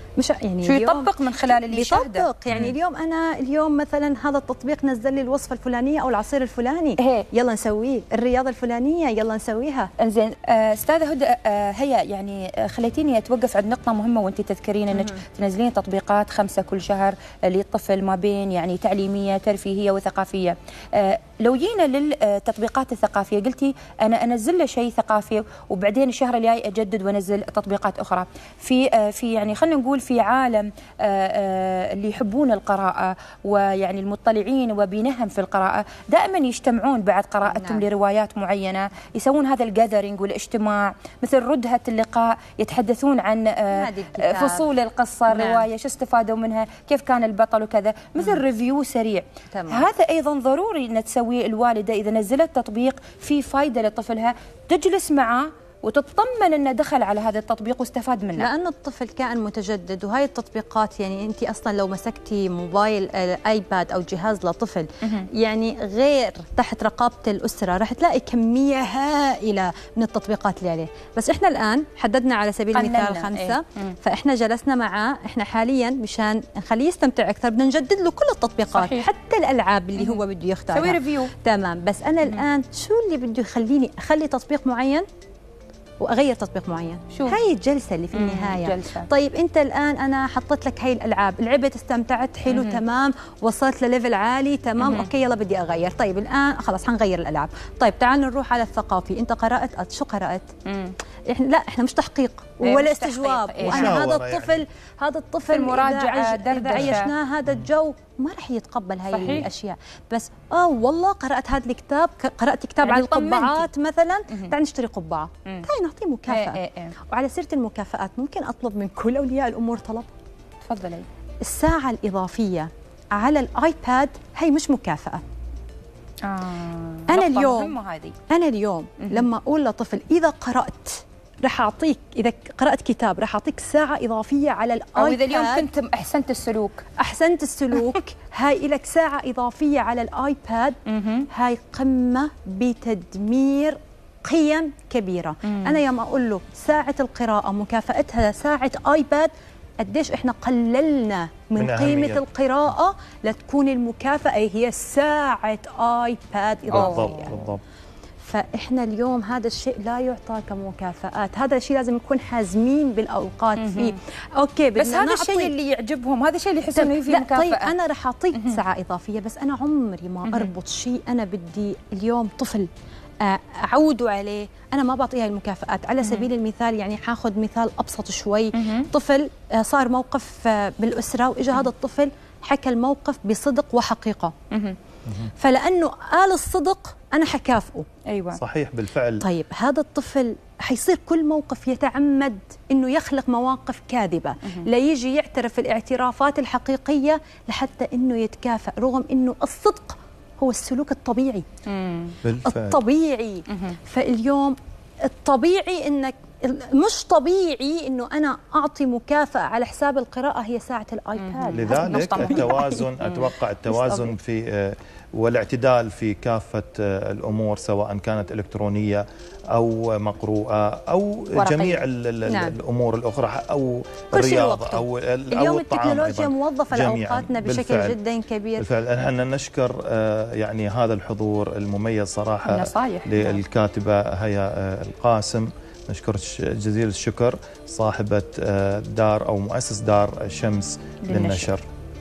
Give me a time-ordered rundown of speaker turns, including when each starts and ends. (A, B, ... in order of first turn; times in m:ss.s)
0:00.2-0:09.9 A
0:00.6-0:02.7 B
0:07.0-0:07.3 B
0:10.0-0:58.5 B
0:37.4-0:37.9 A
0:43.7-0:44.7 A
0:45.3-0:45.7 A
0:49.5-0:49.9 A
0:58.4-1:25.0 A
1:12.7-1:13.9 B
1:18.7-1:19.1 B
1:20.0-1:21.3 B
1:26.0-1:40.5 A
1:27.1-1:27.4 B
1:28.1-1:29.1 B
1:32.5-1:32.8 B
1:34.8-1:35.1 B
1:40.7-1:41.0 B
1:41.3-2:00.1 A
1:42.6-1:44.1 B
1:43.6-1:44.6 C
1:45.5-1:47.1 B
1:49.1-1:49.5 B
1:52.8-1:53.7 B
1:56.3-1:57.0 B
2:00.6-2:01.1 B
2:01.4-2:05.2 A
2:06.2-2:08.2 B
2:07.1-2:07.8 A
2:08.3-2:15.7 A
2:15.0-2:16.8 B
2:17.0-2:20.8 A
2:20.9-2:21.3 B
2:21.3-2:37.4 A
2:25.5-2:25.8 B
2:31.6-2:32.2 C
2:36.7-2:37.6 C
2:36.7-2:37.3 B
2:38.2-2:45.5 A
2:43.6-2:44.0 B
2:44.8-2:47.7 B
2:46.8-2:52.7 A
2:48.3-2:48.6 B
2:50.2-2:50.5 B
2:53.2-3:04.3 A
2:56.0-2:56.3 B
2:58.5-2:58.9 B
3:04.5-3:04.8 B
3:05.4-3:07.9 A
3:08.1-3:08.4 B
3:08.4-3:09.2 C
3:09.2-3:21.4 A
3:21.7-3:22.2 B
3:22.2-3:22.8 C
3:22.4-3:32.9 A
3:31.2-3:33.3 B
3:31.5-3:48.0 C
3:33.7-3:34.1 A
3:41.4-3:41.8 B
3:42.3-3:42.6 A
3:44.1-3:48.7 A
3:48.6-4:01.6 C
3:52.5-3:53.4 B
4:01.0-4:01.5 B